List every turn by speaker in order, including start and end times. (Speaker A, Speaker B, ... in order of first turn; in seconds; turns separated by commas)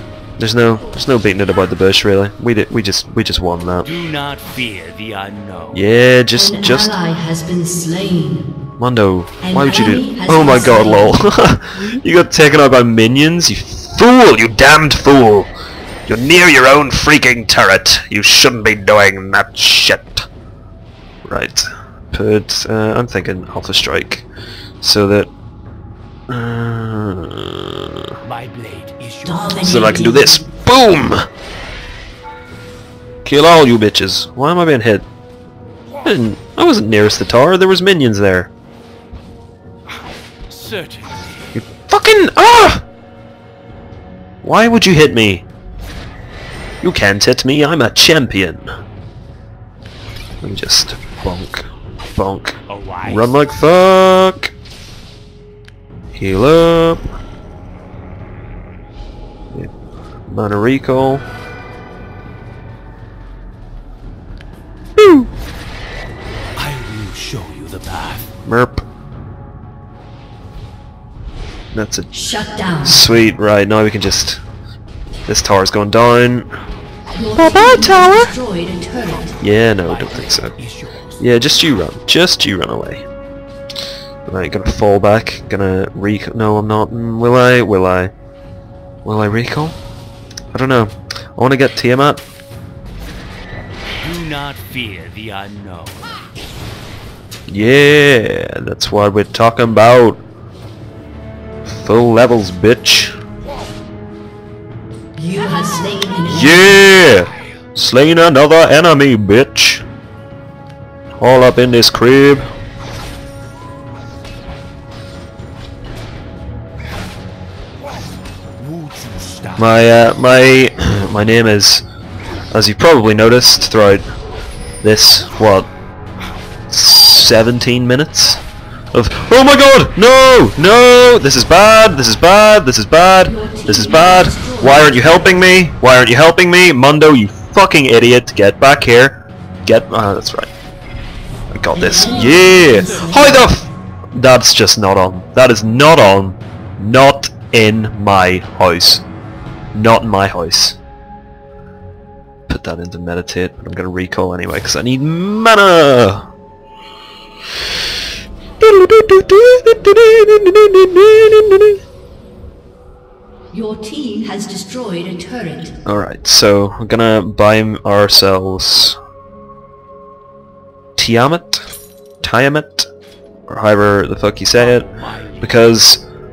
Speaker A: 0.4-3.9, Speaker B: 3.8-5.8, Speaker A: 5.7-7.0, Speaker C: 6.3-8.6, Speaker A: 8.8-15.5, Speaker C: 9.4-11.3, Speaker A: 16.1-20.2, Speaker A: 21.3-24.3, Speaker A: 24.8-25.3, Speaker A: 26.3-28.2, Speaker B: 28.2-29.8, Speaker C: 29.2-30.4, Speaker A: 29.6-31.3, Speaker A: 33.2-35.1, Speaker A: 36.0-38.5, Speaker B: 40.5-41.5, Speaker A: 41.5-42.8, Speaker A: 44.4-45.5, Speaker A: 46.8-48.7, Speaker A: 50.4-54.5, Speaker B: 52.7-53.4, Speaker A: 56.1-57.0, Speaker A: 60.3-61.2, Speaker A: 65.0-65.3, Speaker B: 66.5-68.3, Speaker A: 68.5-68.8, Speaker A: 71.7-72.1, Speaker C: 72.1-73.0, Speaker A: 72.8-74.4, Speaker A: 75.3-76.5, Speaker C: 77.2-79.4, Speaker A: 77.3-78.3, Speaker A: 79.4-80.5, Speaker B: 79.8-81.2, Speaker A: 81.2-83.0, Speaker A: 84.3-88.1, Speaker A: 89.0-89.8, Speaker A: 90.5-92.2, Speaker B: 94.0-96.2, Speaker A: 97.5-100.2, Speaker A: 101.7-103.1, Speaker C: 105.2-106.8, Speaker A: 106.3-109.8, Speaker A: 111.2-112.5, Speaker B: 118.6-119.8, Speaker A: 119.6-121.8, Speaker A: 122.5-124.1, Speaker A: 124.8-125.7, Speaker A: 126.7-128.4, Speaker A: 128.9-140.5, Speaker C: 133.3-135.4, Speaker A: 141.5-149.0, Speaker C: 141.7-143.6, Speaker A: 149.7-150.8, Speaker A: 152.5-156.3, Speaker A: 158.6-161.8, Speaker C: 163.5-165.8, Speaker A: 165.8-169.0, Speaker A: 171.0-171.7, Speaker A: 172.2-172.9, Speaker A: 173.5-174.9, Speaker B: 174.5-175.8, Speaker A: 175.4-176.0